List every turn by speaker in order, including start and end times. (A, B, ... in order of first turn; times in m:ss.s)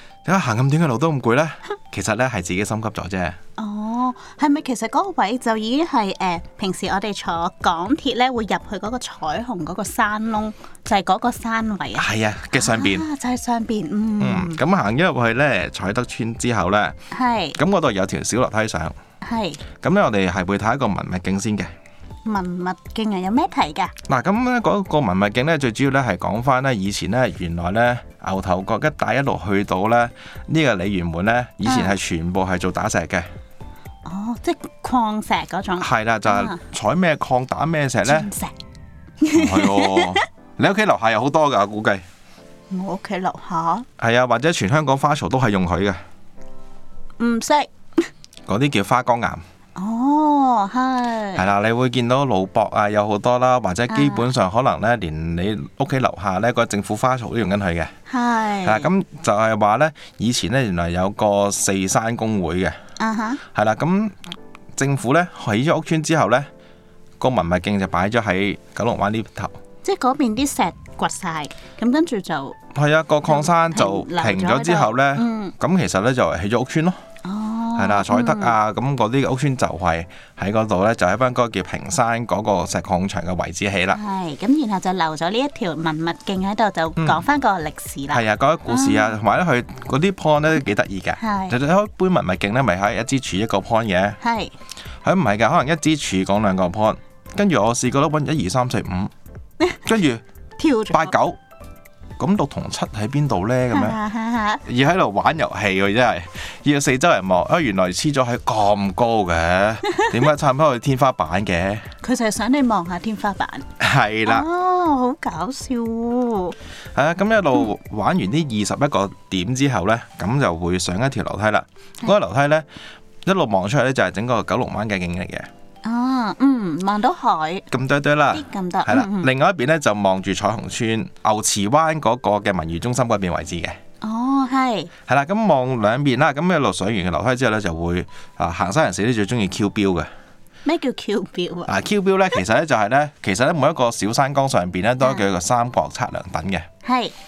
0:00.2-0:03.4 A
0:03.6-0:14.6 B
0:12.0-0:13.0 A
0:14.2-0:17.0 A
0:17.1-0:17.6 B
0:17.6-0:18.9 A
0:19.2-0:19.6 B
0:19.8-0:21.7 A
0:22.2-0:23.9 B
0:24.1-0:33.3 A
0:31.6-0:31.9 B
0:34.0-0:36.6 B
0:35.8-0:38.3 A
0:38.0-0:38.5 B
0:39.2-0:40.2 B
0:39.3-0:42.0 A
0:42.7-0:43.8 B
0:44.0-0:46.0 A
0:47.2-0:48.0 B
0:48.5-0:49.4 A
0:49.8-0:51.5 B
0:51.4-0:57.9 A
0:53.9-0:54.3 B
0:58.1-0:58.9 B
0:58.6-1:02.8 A
1:03.0-1:03.4 B
1:03.5-1:04.1 A
1:04.8-1:06.5 A
1:07.2-1:09.6 A
1:09.8-1:12.6 B
1:12.7-1:17.0 A
1:13.3-1:15.5 B
1:17.2-1:18.6 B
1:17.8-1:24.0 A
1:23.9-1:29.1 B
1:28.1-1:34.2 A
1:31.2-1:31.5 B
1:34.2-1:34.5 B
1:35.0-1:39.1 A
1:39.8-1:40.2 A
1:40.6-1:41.1 B
1:40.9-1:41.4 A
1:42.2-1:44.0 A
1:43.7-1:44.6 B
1:44.6-1:51.8 A
1:52.0-1:53.6 B
1:53.8-1:54.4 A
1:54.2-1:56.6 B
1:56.9-2:02.6 A
2:03.2-2:05.5 A
2:05.8-2:07.6 B
2:07.7-2:13.8 A
2:08.3-2:09.3 B
2:14.0-2:14.9 B
2:15.1-2:20.1 A
2:20.6-2:21.7 B
2:21.7-2:26.6 A
2:26.8-2:27.1 B